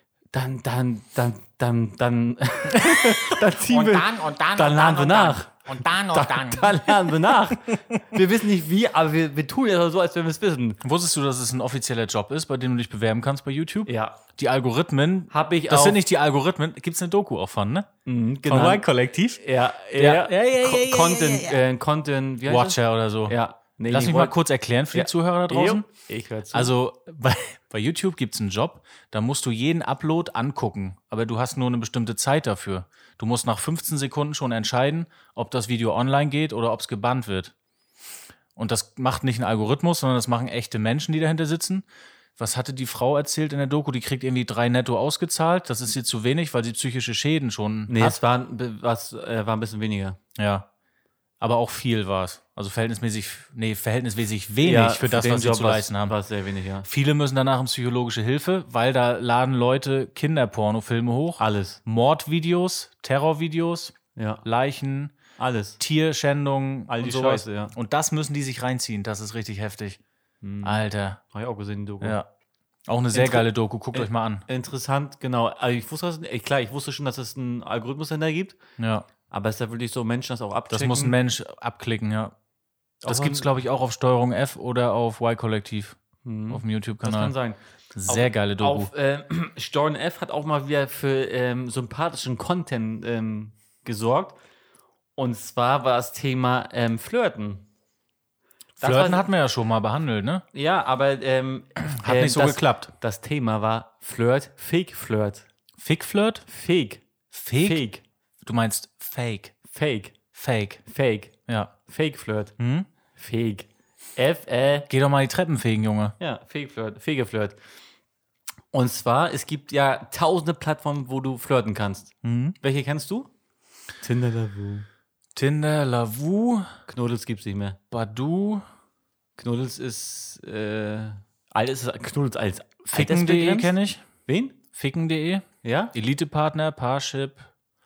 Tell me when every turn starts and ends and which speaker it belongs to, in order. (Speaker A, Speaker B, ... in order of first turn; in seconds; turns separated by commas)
Speaker A: 0.3-10.8, Speaker B: 2.8-7.8, Speaker B: 10.8-17.9, Speaker A: 13.9-14.2, Speaker A: 15.3-16.0, Speaker A: 18.1-18.9, Speaker B: 18.4-19.4, Speaker A: 19.4-24.4, Speaker B: 20.0-21.6, Speaker B: 22.5-23.4, Speaker B: 23.9-25.9, Speaker A: 24.9-26.7, Speaker B: 26.5-37.5, Speaker B: 38.6-41.9, Speaker B: 42.4-48.2, Speaker A: 47.9-50.2, Speaker B: 50.4-50.7, Speaker B: 51.4-56.1, Speaker A: 54.6-56.9, Speaker B: 56.9-65.2, Speaker A: 61.4-61.8, Speaker A: 64.2-64.4, Speaker A: 65.4-65.8, Speaker B: 65.8-70.0, Speaker A: 66.9-67.7, Speaker A: 70.4-72.2, Speaker B: 70.6-71.2, Speaker B: 72.0-72.3, Speaker B: 72.9-74.4, Speaker A: 73.1-78.6, Speaker B: 78.8-79.1, Speaker A: 79.3-81.2, Speaker B: 80.7-82.3, Speaker A: 83.0-83.5, Speaker B: 83.1-86.0, Speaker A: 86.2-94.4, Speaker B: 86.5-87.3, Speaker B: 87.9-88.9, Speaker A: 95.2-97.7, Speaker B: 98.8-100.4, Speaker A: 98.8-99.3, Speaker A: 100.5-105.5, Speaker B: 101.9-102.9, Speaker B: 105.8-106.4, Speaker A: 106.5-107.0, Speaker B: 107.3-107.8, Speaker A: 107.6-108.0, Speaker B: 108.4-109.5, Speaker A: 109.7-110.2, Speaker B: 110.3-110.8, Speaker A: 110.9-111.3, Speaker B: 111.5-111.7, Speaker A: 111.9-112.5, Speaker B: 112.6-112.9, Speaker A: 113.2-114.9, Speaker B: 114.9-116.2, Speaker A: 116.2-117.6, Speaker A: 118.7-123.3, Speaker B: 122.2-122.6, Speaker A: 124.0-124.9, Speaker B: 125.3-126.7, Speaker A: 126.9-127.8, Speaker B: 127.9-128.6, Speaker A: 129.4-133.7, Speaker B: 132.9-134.0, Speaker A: 134.3-134.6, Speaker B: 134.7-137.5, Speaker A: 135.6-135.9